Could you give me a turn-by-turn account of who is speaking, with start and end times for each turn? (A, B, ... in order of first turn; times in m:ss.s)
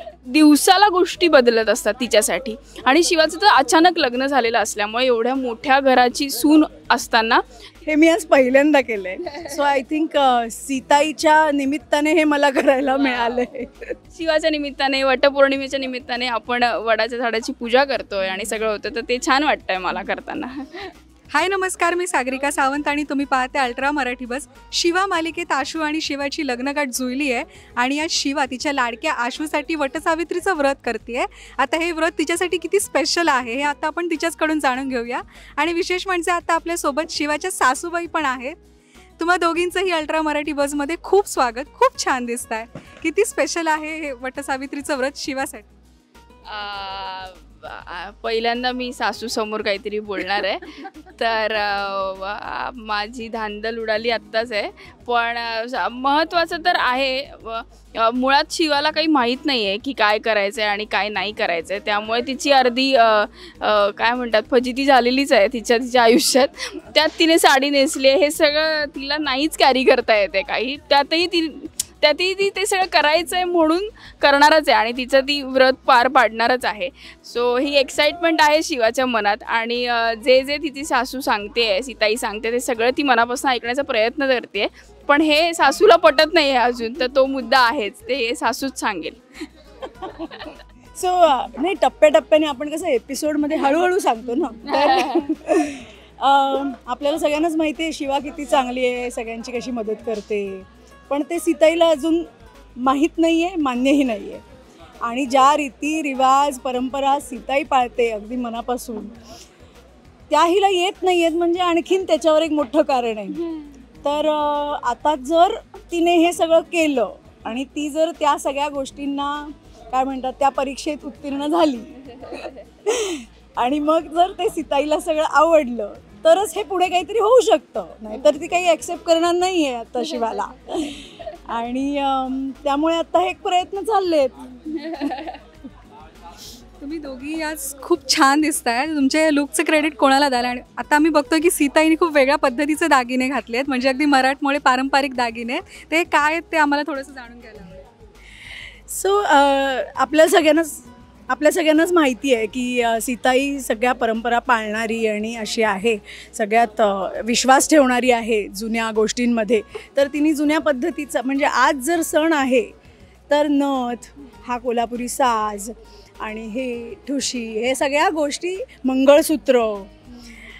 0:00.2-0:07.4 A
0:07.8-0:13.9 B
0:14.1-0:20.9 A
0:21.3-0:38.6 C
0:39.2-0:45.7 C
0:46.5-1:29.2 A
1:30.0-1:30.3 B
1:31.0-1:42.3 B
1:34.7-1:35.3 A
1:42.8-1:44.4 B
1:45.0-1:49.2 B
1:50.3-1:53.4 B
1:54.0-2:14.9 B
2:14.8-2:15.3 A
2:16.8-2:27.9 C
2:28.9-2:42.7 B
2:43.3-2:49.9 B